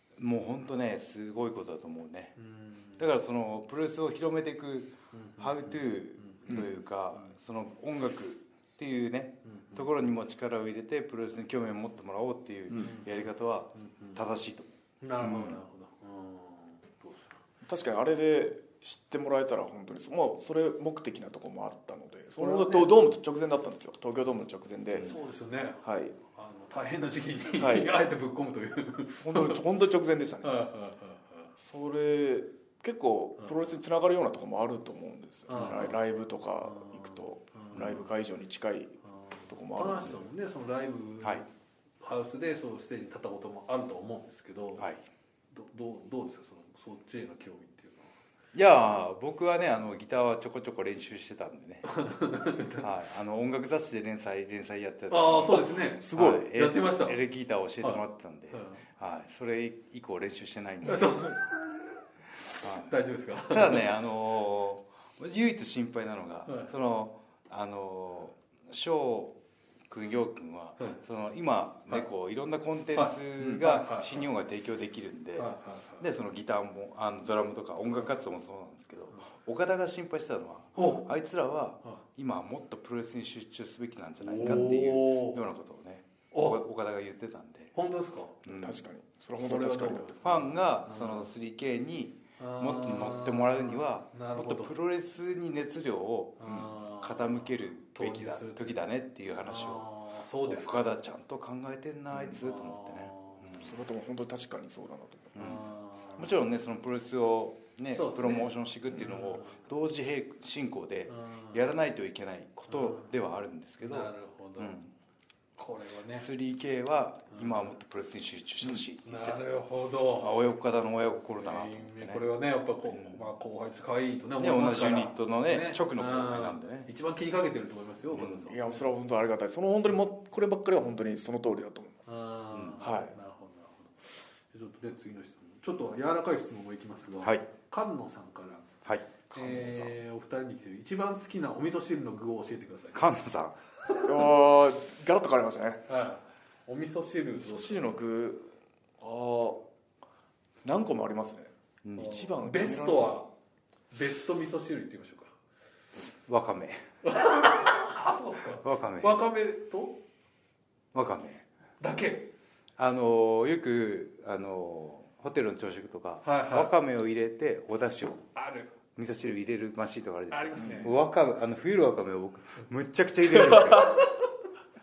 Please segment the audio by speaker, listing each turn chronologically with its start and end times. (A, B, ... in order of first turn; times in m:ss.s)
0:00.2-0:02.4 A
0:02.4-0:03.0 B
0:03.0-0:15.6 A
0:05.1-0:06.6 B
0:09.4-0:09.9 B
0:12.8-0:13.1 B
0:13.7-0:14.2 B
0:15.0-0:17.4 B
0:17.6-0:25.1 C
0:22.4-0:23.0 B
0:24.9-0:25.2 A
0:25.0-0:29.6 B
0:25.8-0:26.1 C
0:27.6-0:27.9 C
0:29.2-0:30.6 C
0:30.4-0:31.5 B
0:31.6-0:40.3 C
0:35.5-0:36.0 B
0:36.6-0:38.0 B
0:39.2-0:41.5 B
0:42.0-0:44.8 B
0:45.5-0:48.2 B
0:48.5-0:52.0 A
0:51.8-0:52.9 B
0:52.8-1:01.3 A
0:55.1-0:57.2 B
0:56.0-0:56.5 C
0:57.8-0:58.8 B
1:00.8-1:02.0 B
1:02.6-1:03.9 B
1:02.6-1:09.4 A
1:06.4-1:06.7 B
1:09.9-1:27.7 A
1:12.9-1:14.3 B
1:15.4-1:16.0 B
1:20.8-1:21.0 B
1:24.2-1:25.4 B
1:26.3-1:26.6 B
1:27.7-1:28.4 B
1:28.4-1:28.8 A
1:28.5-1:30.4 C
1:29.4-1:31.3 B
1:30.2-1:39.9 A
1:32.4-1:34.7 B
1:36.4-1:38.8 B
1:39.4-1:40.9 B
1:40.4-1:43.7 A
1:42.4-1:43.4 B
1:43.6-1:45.6 C
1:45.3-1:54.9 A
1:45.4-1:46.3 B
1:47.9-1:49.6 B
1:51.1-1:51.6 B
1:52.7-1:53.1 B
1:53.8-1:54.8 B
1:55.6-1:56.3 B
1:56.2-1:59.4 A
1:57.3-1:57.7 B
1:59.0-2:00.4 B
2:00.2-2:02.2 A
2:01.4-2:08.8 B
2:02.9-2:03.2 A
2:04.4-2:06.9 A
2:08.1-2:08.5 A
2:08.4-2:12.0 C
2:12.1-2:18.7 B
2:12.5-2:12.8 A
2:12.8-2:13.1 C
2:19.3-2:23.0 B
2:19.3-2:19.9 C
2:22.9-2:23.6 A
2:24.0-2:25.8 C
2:25.9-2:27.9 B
2:27.4-2:29.6 C
2:30.6-2:33.1 C
2:31.8-2:32.2 A
2:32.0-2:33.3 B
2:33.9-2:35.3 B
2:36.3-2:36.8 A
2:37.0-2:40.0 B
2:38.6-2:39.2 A
2:40.9-2:41.4 A
2:41.8-2:42.3 B
2:42.8-2:48.3 A
2:46.2-2:46.7 B
2:48.3-2:48.7 B
2:49.0-2:54.1 A
2:50.3-2:51.0 B
2:53.8-2:54.1 B